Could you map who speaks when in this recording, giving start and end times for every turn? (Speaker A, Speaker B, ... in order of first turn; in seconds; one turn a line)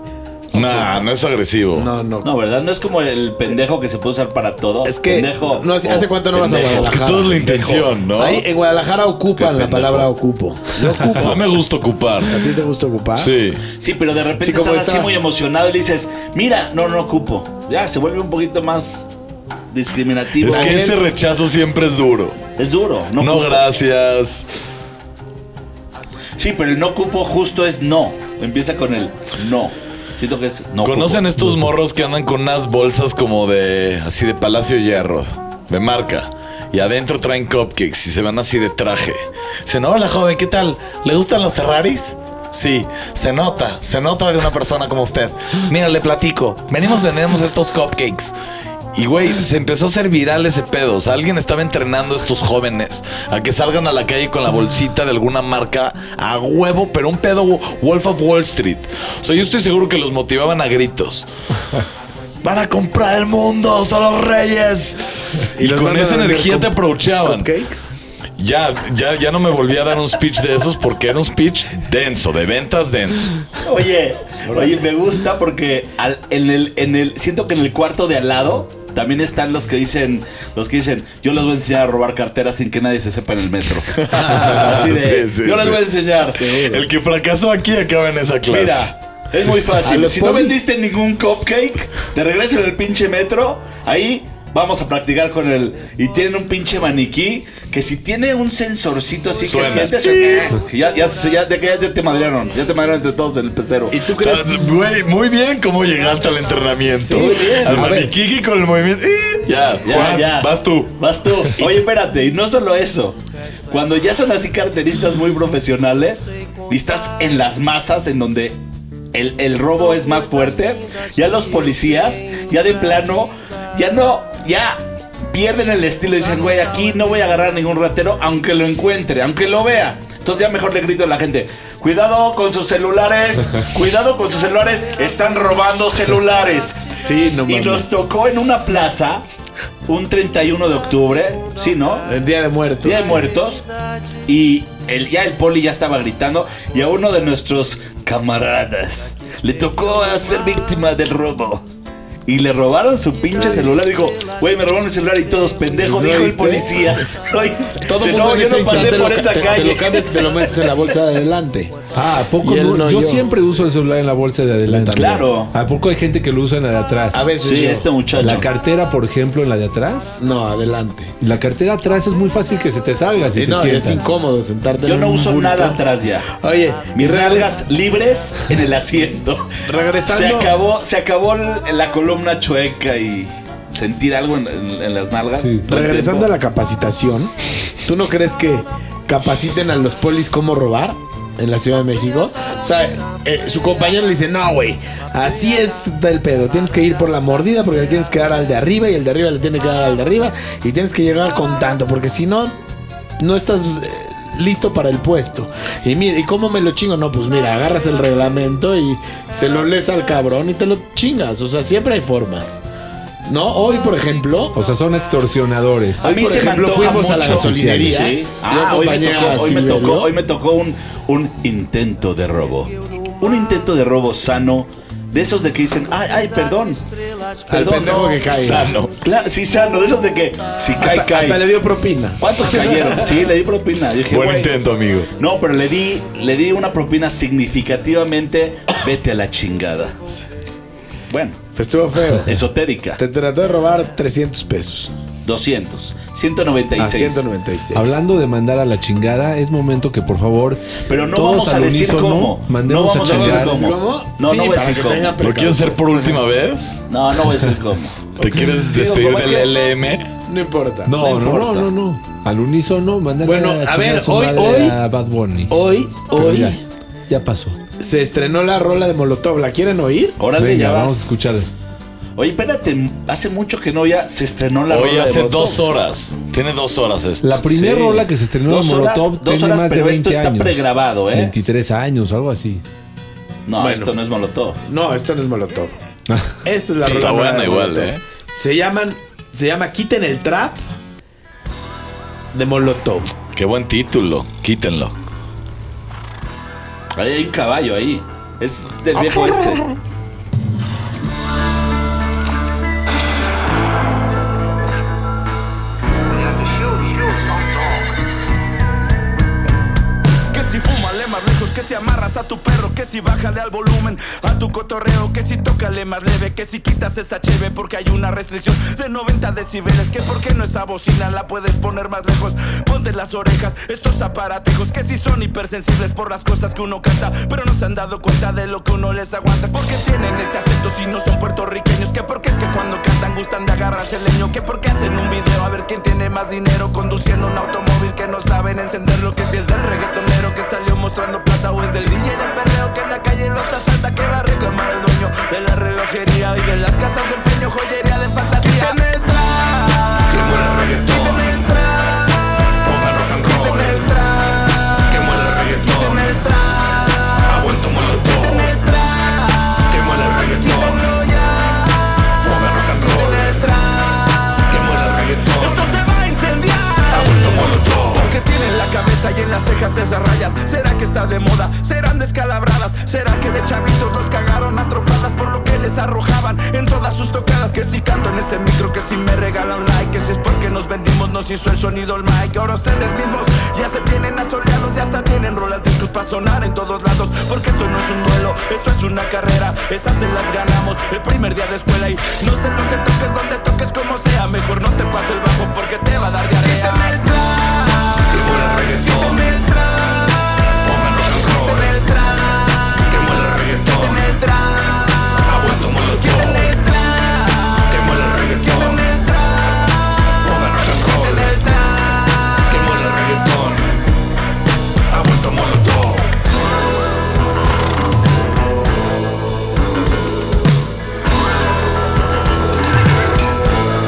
Speaker A: 0.5-1.9
Speaker B: 0.6-0.9
Speaker B: 1.7-2.3
Speaker C: 2.2-7.0
Speaker B: 4.8-11.5
Speaker A: 6.5-8.4
Speaker C: 9.4-10.1
Speaker A: 11.2-12.4
Speaker B: 12.2-13.3
Speaker A: 13.2-13.6
Speaker C: 13.8-19.1
Speaker B: 14.4-15.2
Speaker C: 19.7-20.8
Speaker A: 20.4-22.4
Speaker B: 20.4-21.0
Speaker C: 22.6-23.7
Speaker A: 23.2-24.5
Speaker C: 26.4-31.3
Speaker A: 30.8-48.3
Speaker A: 48.9-61.8
Speaker A: 62.4-67.5
Speaker B: 65.5-67.9
Speaker A: 68.4-73.4
Speaker C: 73.6-86.5
Speaker B: 74.5-74.9
Speaker A: 84.1-85.8
Speaker B: 86.2-86.9
Speaker A: 86.6-88.9
Speaker C: 88.5-104.0
Speaker B: 89.7-90.6
Speaker A: 99.4-100.5
Speaker B: 100.0-100.4
Speaker B: 103.9-104.7
Speaker A: 104.2-111.6
Speaker B: 106.9-108.2
Speaker C: 107.1-108.0
Speaker C: 109.8-113.2
Speaker C: 113.7-118.6
Speaker C: 119.1-139.2
Speaker B: 136.9-138.0
Speaker C: 139.9-142.1
Speaker B: 142.0-143.3
Speaker C: 142.8-143.6
Speaker C: 144.2-151.6
Speaker C: 152.2-160.9
Speaker B: 153.3-153.7
Speaker B: 155.8-157.0
Speaker B: 157.8-161.8
Speaker D: 161.9-167.3
Speaker B: 162.4-163.3
Speaker B: 164.6-165.3
Speaker C: 164.9-165.5
Speaker B: 167.1-167.9
Speaker C: 167.4-168.5
Speaker D: 168.2-170.2
Speaker B: 170.2-171.1
Speaker D: 171.2-174.1
Speaker B: 173.3-177.5
Speaker C: 174.8-176.3
Speaker C: 176.9-186.3
Speaker B: 179.6-180.5
Speaker D: 185.4-185.6
Speaker B: 185.7-202.6
Speaker B: 203.2-212.6
Speaker B: 213.2-214.6
Speaker D: 214.5-216.1
Speaker B: 216.0-220.2
Speaker C: 216.0-226.8
Speaker D: 217.2-218.1
Speaker B: 227.5-228.7
Speaker C: 227.5-231.4
Speaker A: 228.3-228.9
Speaker B: 230.8-233.0
Speaker C: 232.2-234.6
Speaker A: 234.1-235.1
Speaker C: 235.2-239.9
Speaker C: 241.1-241.4
Speaker B: 241.5-242.4
Speaker C: 242.2-243.0
Speaker B: 243.0-244.9
Speaker C: 245.2-247.2
Speaker B: 246.8-248.0
Speaker D: 247.7-253.6
Speaker C: 250.9-255.2
Speaker B: 253.0-256.3
Speaker A: 255.2-256.8
Speaker C: 256.9-259.6
Speaker A: 258.2-260.1
Speaker B: 260.2-261.2
Speaker D: 260.9-267.6
Speaker C: 261.0-261.7
Speaker B: 263.2-264.8
Speaker B: 265.5-266.6
Speaker B: 267.8-270.2
Speaker C: 270.2-271.1
Speaker D: 270.4-271.5
Speaker C: 272.2-275.7
Speaker A: 274.7-278.0
Speaker D: 277.2-282.6
Speaker C: 277.7-281.3
Speaker C: 283.4-284.6
Speaker B: 283.6-283.9
Speaker B: 284.6-285.8
Speaker D: 286.1-286.4
Speaker B: 286.4-290.6
Speaker A: 286.8-288.0
Speaker B: 292.3-293.1
Speaker A: 293.3-294.9
Speaker C: 296.9-299.7
Speaker B: 299.1-299.6
Speaker E: 310.3-413.6
Speaker E: 414.9-416.1